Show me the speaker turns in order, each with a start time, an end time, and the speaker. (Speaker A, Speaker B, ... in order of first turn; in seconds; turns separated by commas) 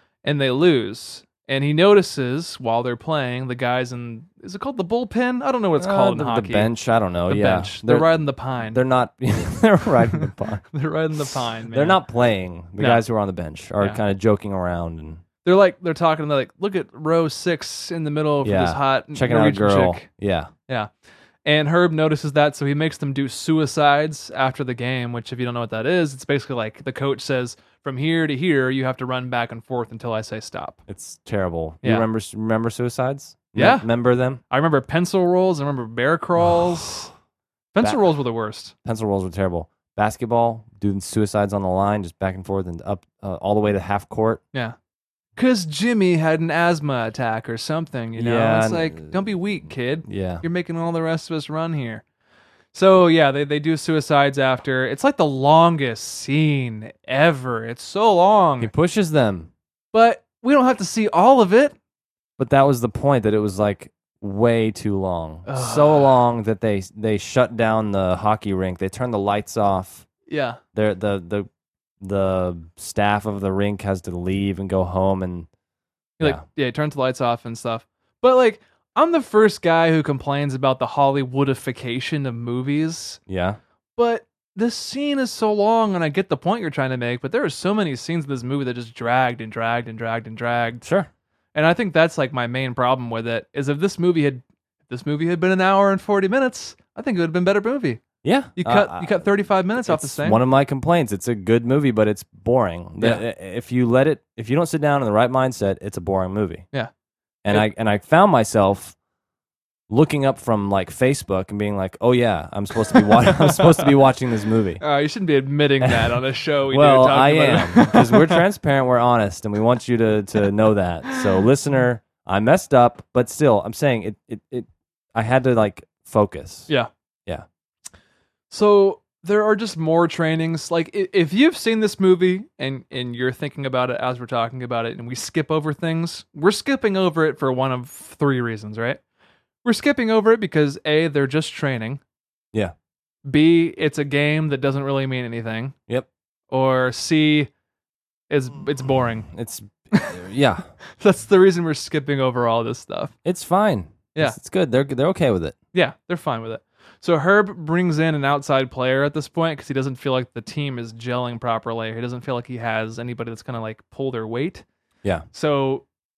Speaker A: 0.2-6.7, Speaker B: 5.8-15.2, Speaker A: 7.3-8.8, Speaker A: 10.7-12.0, Speaker A: 12.8-13.0, Speaker A: 15.4-20.1, Speaker B: 18.4-20.5, Speaker A: 21.4-30.8, Speaker B: 30.9-34.4, Speaker A: 33.6-33.9, Speaker A: 34.5-37.1, Speaker A: 37.7-38.7, Speaker B: 38.8-44.4, Speaker A: 45.4-52.0, Speaker B: 48.1-49.3, Speaker B: 50.0-50.4, Speaker A: 52.7-58.7, Speaker B: 58.6-59.5, Speaker A: 59.9-61.8, Speaker B: 62.4-70.1, Speaker A: 65.5-66.2, Speaker A: 70.3-70.6, Speaker B: 70.7-71.5, Speaker B: 72.0-75.5, Speaker A: 76.2-83.2, Speaker B: 83.3-83.6, Speaker A: 84.0-90.8, Speaker B: 90.8-91.1, Speaker A: 91.5-98.0, Speaker B: 98.2-106.7, Speaker A: 98.6-100.4, Speaker B: 107.4-109.0, Speaker B: 109.9-114.8, Speaker A: 113.4-113.8, Speaker A: 114.8-118.4, Speaker B: 115.8-116.1, Speaker B: 116.7-126.7, Speaker A: 128.5-139.0, Speaker A: 139.6-142.0, Speaker A: 143.2-145.8, Speaker A: 146.5-147.5, Speaker A: 148.3-149.3, Speaker B: 149.3-150.7, Speaker A: 151.0-153.1, Speaker B: 153.2-155.6, Speaker A: 155.7-164.6, Speaker A: 165.3-165.8